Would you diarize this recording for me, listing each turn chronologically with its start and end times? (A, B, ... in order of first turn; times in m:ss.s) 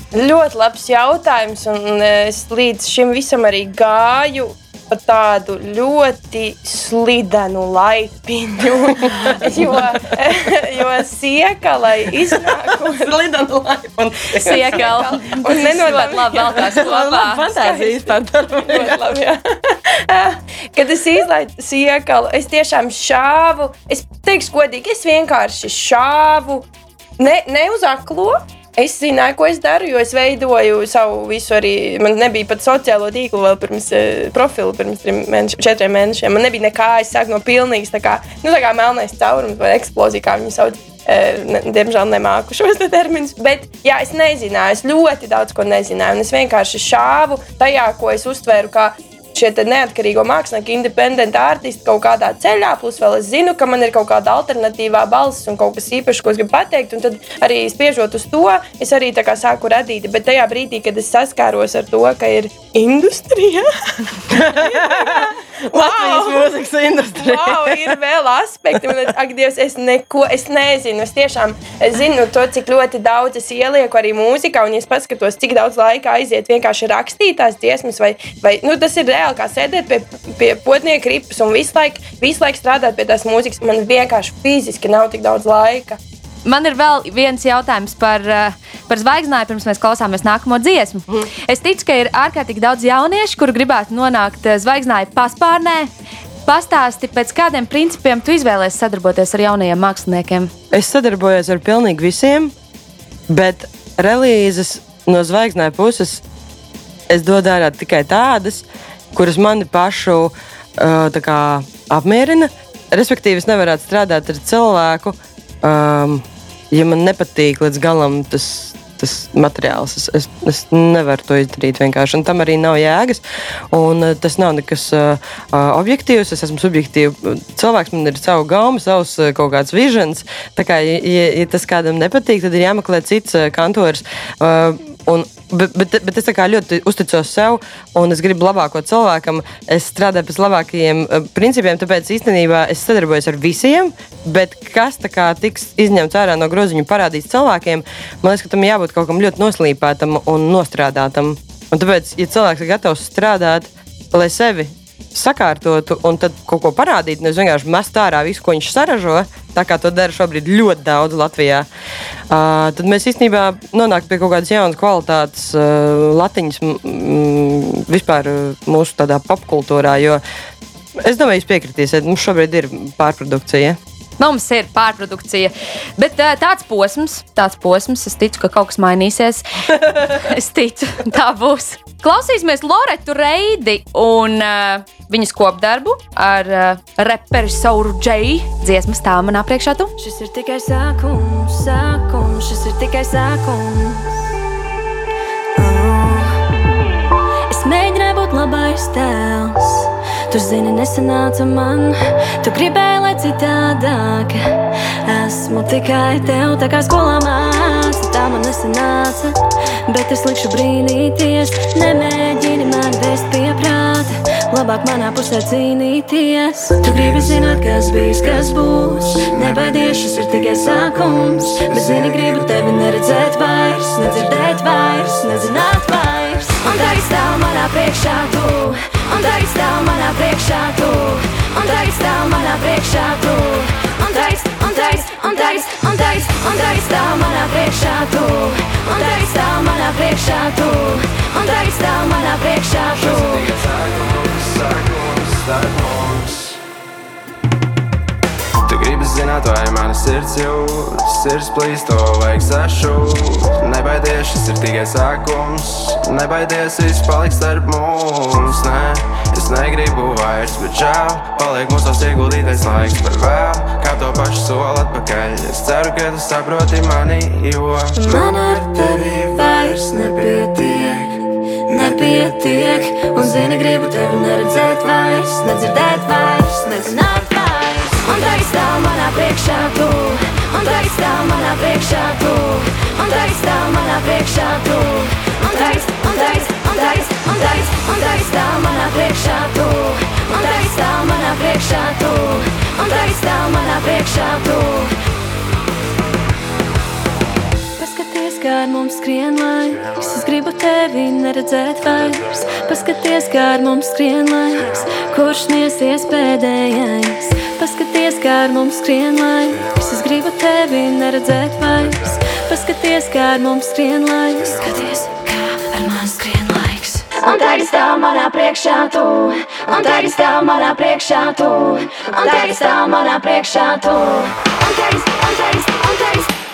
0:00.1-0:13.1 A
0:08.8-0:09.9 B
0:12.2-0:15.0 B
0:14.4-0:17.5 C
0:14.4-0:18.0 A
0:15.6-0:19.1 B
0:18.6-0:26.7 A
0:27.2-1:06.5 A
1:04.3-1:08.0 B
1:07.2-1:26.0 A
1:26.4-1:35.9 C
1:36.5-1:40.5 C
1:40.7-1:42.5 B
1:43.3-1:46.2 B
1:47.1-2:41.7 B
2:42.3-2:50.2 B
2:51.0-2:53.8 B
2:54.2-3:09.9 C
3:10.0-3:14.2 D
3:15.6-3:16.6 D
3:17.5-4:03.5 D
4:02.9-4:06.6 E
4:08.6-4:28.1 E
4:28.0-4:54.9 D
4:57.8-5:26.3 D